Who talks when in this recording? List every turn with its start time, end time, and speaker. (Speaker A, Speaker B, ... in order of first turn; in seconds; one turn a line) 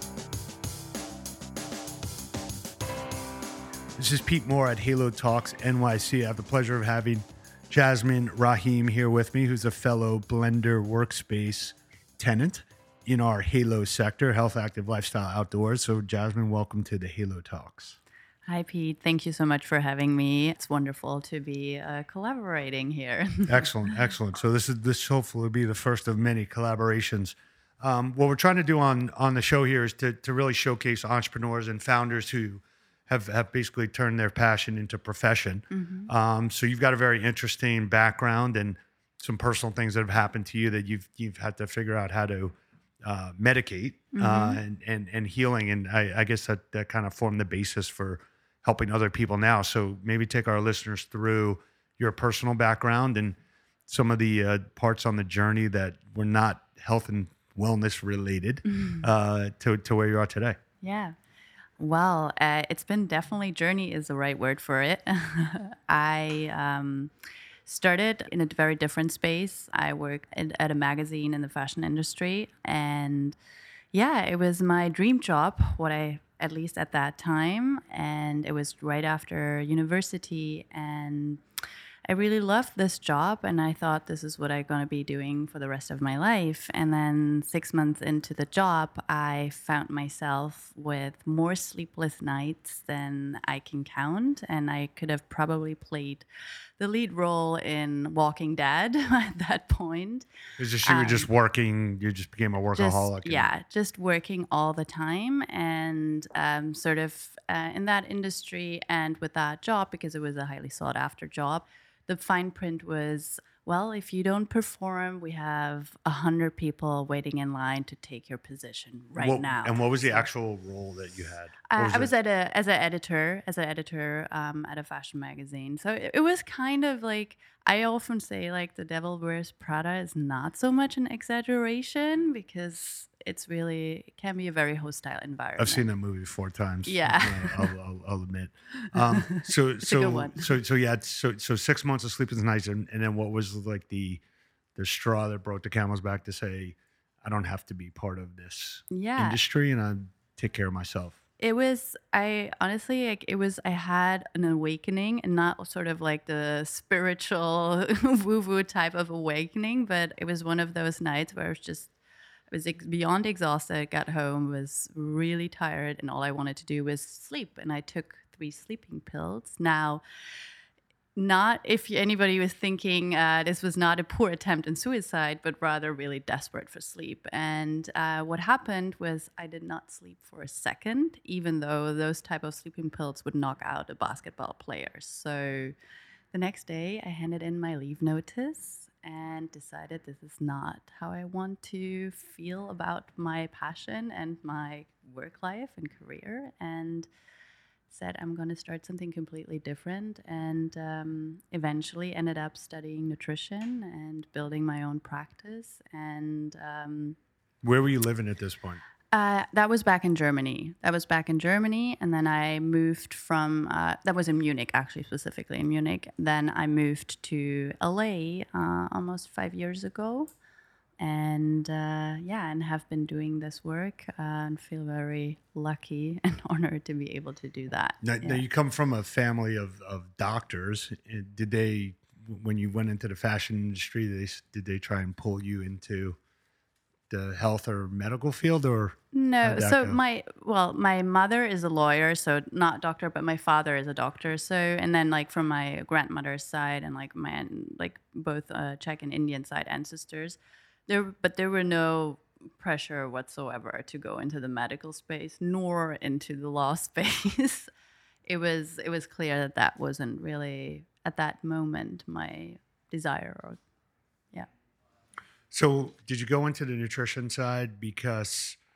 Speaker A: 4.0-18.0
Speaker B: 18.5-23.7
Speaker A: 23.5-53.4
Speaker B: 35.7-36.1
Speaker B: 44.1-44.6
Speaker A: 53.9-60.6
Speaker B: 58.7-59.0
Speaker B: 60.8-61.1
Speaker B: 61.8-67.1
Speaker B: 67.7-73.3
Speaker B: 73.9-81.4
Speaker B: 82.1-96.2
Speaker B: 96.8-100.2
Speaker A: 100.6-103.5
Speaker B: 100.8-101.3
Speaker B: 102.8-120.3
Speaker A: 119.2-122.1
Speaker B: 121.7-135.8
Speaker A: 135.6-144.2
Speaker B: 136.9-137.7
Speaker B: 139.1-140.5
Speaker A: 144.8-151.2
Speaker B: 148.9-149.4
Speaker B: 151.4-161.9
Speaker B: 162.5-170.0
Speaker B: 171.2-185.7
Speaker B: 186.3-197.1
Speaker B: 197.9-207.2
Speaker A: 207.6-208.8
Speaker B: 209.1-220.3
Speaker B: 221.0-228.4
Speaker A: 228.0-236.2
Speaker A: 237.1-240.0
Speaker B: 239.1-257.7
Speaker B: 258.3-263.6
Speaker A: 265.5-268.6